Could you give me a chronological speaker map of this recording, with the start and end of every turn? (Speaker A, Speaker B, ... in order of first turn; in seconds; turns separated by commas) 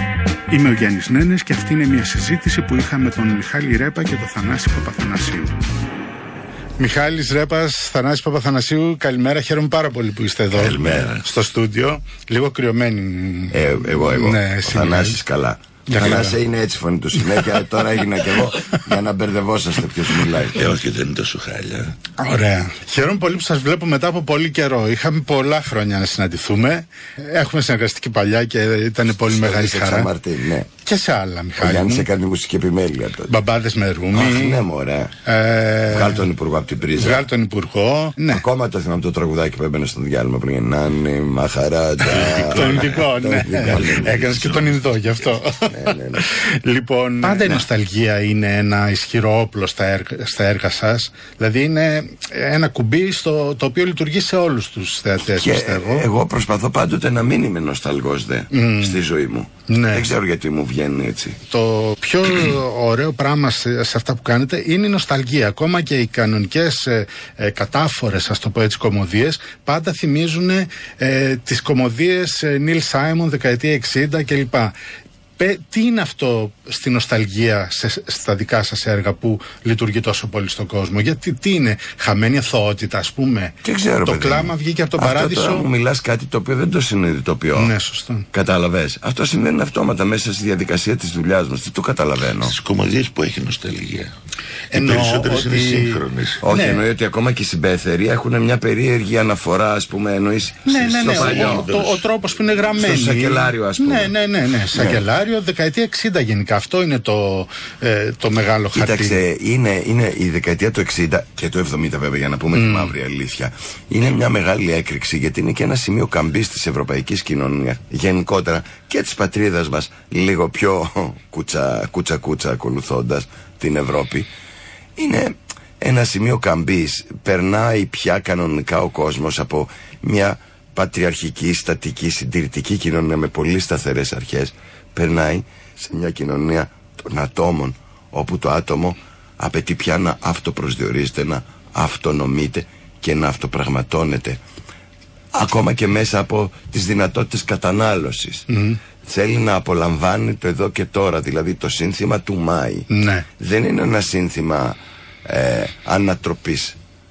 Speaker A: 0.5-5.6, Speaker A: 6.8-15.2, Speaker B: 10.5-11.2, Speaker C: 13.5-20.6, Speaker A: 15.9-16.4, Speaker A: 17.2-17.6, Speaker B: 20.5-21.9, Speaker A: 22.2-30.1, Speaker C: 29.1-30.7, Speaker A: 30.8-32.1, Speaker C: 31.6-33.4, Speaker A: 33.3-34.6, Speaker C: 34.1-35.1, Speaker A: 35.2-36.2, Speaker C: 35.9-37.2, Speaker A: 37.0-38.4, Speaker C: 38.3-44.0, Speaker B: 42.1-45.0, Speaker A: 42.2-56.1, Speaker C: 45.7-46.3, Speaker C: 47.2-47.6, Speaker C: 55.3-61.4, Speaker A: 58.5-59.0, Speaker A: 59.7-60.1, Speaker A: 61.5-74.7, Speaker A: 75.4-85.7, Speaker C: 83.6-87.7, Speaker A: 87.5-88.3, Speaker C: 88.3-92.5, Speaker B: 92.4-94.1, Speaker A: 94.7-96.8, Speaker B: 94.7-96.6, Speaker C: 96.4-101.7, Speaker A: 100.7-109.2, Speaker B: 101.0-102.0, Speaker C: 102.8-104.1, Speaker C: 104.7-105.0, Speaker C: 108.7-124.3, Speaker A: 112.5-113.0, Speaker C: 125.0-144.4, Speaker C: 145.3-148.5, Speaker A: 148.5-148.8, Speaker C: 149.0-156.8, Speaker A: 152.9-153.2